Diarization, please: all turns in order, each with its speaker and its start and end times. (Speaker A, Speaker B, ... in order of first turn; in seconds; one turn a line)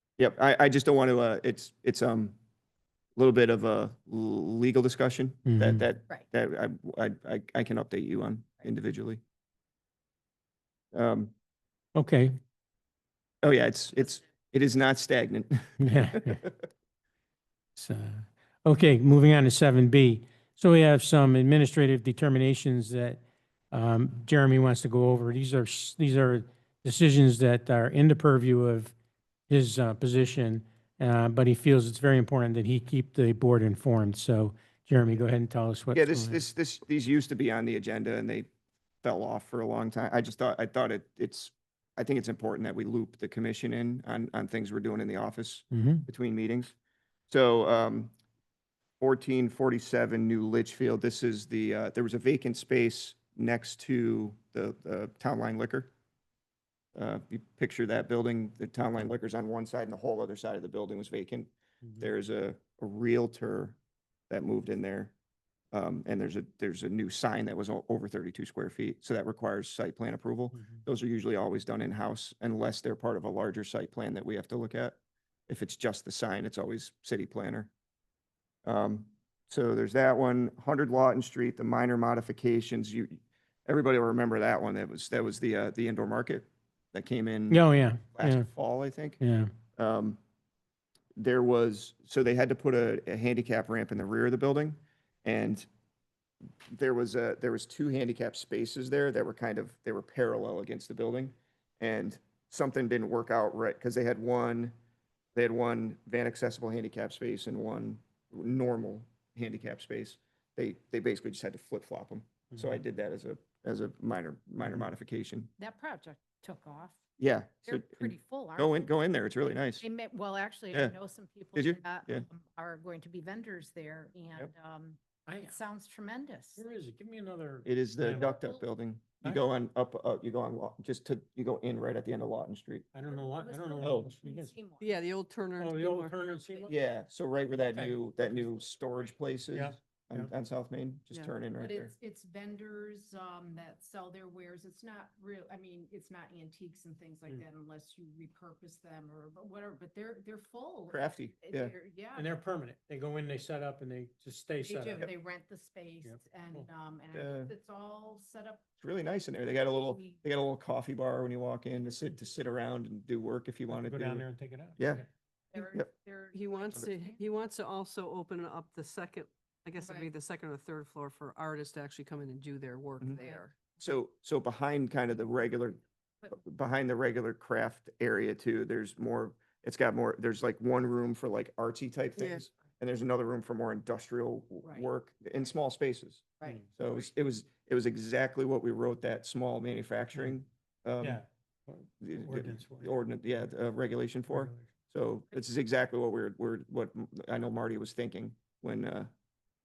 Speaker A: 0.2-2.4
Speaker A: 3.2-9.2
Speaker B: 5.5-5.8
Speaker A: 10.9-11.3
Speaker B: 12.0-12.3
Speaker A: 13.4-16.7
Speaker B: 15.8-16.4
Speaker B: 17.8-28.9
Speaker B: 29.5-36.4
Speaker A: 35.9-38.5
Speaker A: 39.0-46.7
Speaker B: 45.7-46.1
Speaker A: 47.3-48.1
Speaker A: 49.0-55.9
Speaker A: 57.0-63.8
Speaker A: 64.3-65.1
Speaker A: 65.7-75.0
Speaker B: 70.5-70.8
Speaker A: 75.5-77.7
Speaker A: 78.7-89.2
Speaker B: 87.5-88.5
Speaker B: 89.2-89.5
Speaker A: 89.8-90.2
Speaker A: 91.2-95.7
Speaker A: 96.7-104.7
Speaker A: 105.3-115.5
Speaker C: 115.6-117.0
Speaker A: 117.2-119.8
Speaker C: 117.7-118.8
Speaker C: 119.8-126.6
Speaker A: 121.5-122.2
Speaker B: 125.3-125.6
Speaker B: 126.6-128.4
Speaker A: 127.7-132.9
Speaker B: 132.9-134.5
Speaker C: 133.1-135.0
Speaker A: 133.8-134.1
Speaker D: 134.8-136.2
Speaker B: 135.6-136.8
Speaker C: 136.3-136.7
Speaker A: 136.7-141.9
Speaker B: 139.5-140.3
Speaker C: 141.6-152.3
Speaker A: 150.9-151.7
Speaker B: 152.2-155.1
Speaker C: 154.6-158.7
Speaker B: 156.0-156.7
Speaker A: 157.1-157.5
Speaker A: 158.8-165.0
Speaker B: 163.7-165.1
Speaker C: 165.5-167.2
Speaker D: 166.3-173.6
Speaker C: 169.8-170.1
Speaker C: 173.2-173.4
Speaker A: 173.8-191.2
Speaker D: 182.2-182.4
Speaker C: 184.6-184.9
Speaker C: 186.4-187.1
Speaker B: 191.0-192.9
Speaker A: 192.0-199.1
Speaker B: 194.3-194.7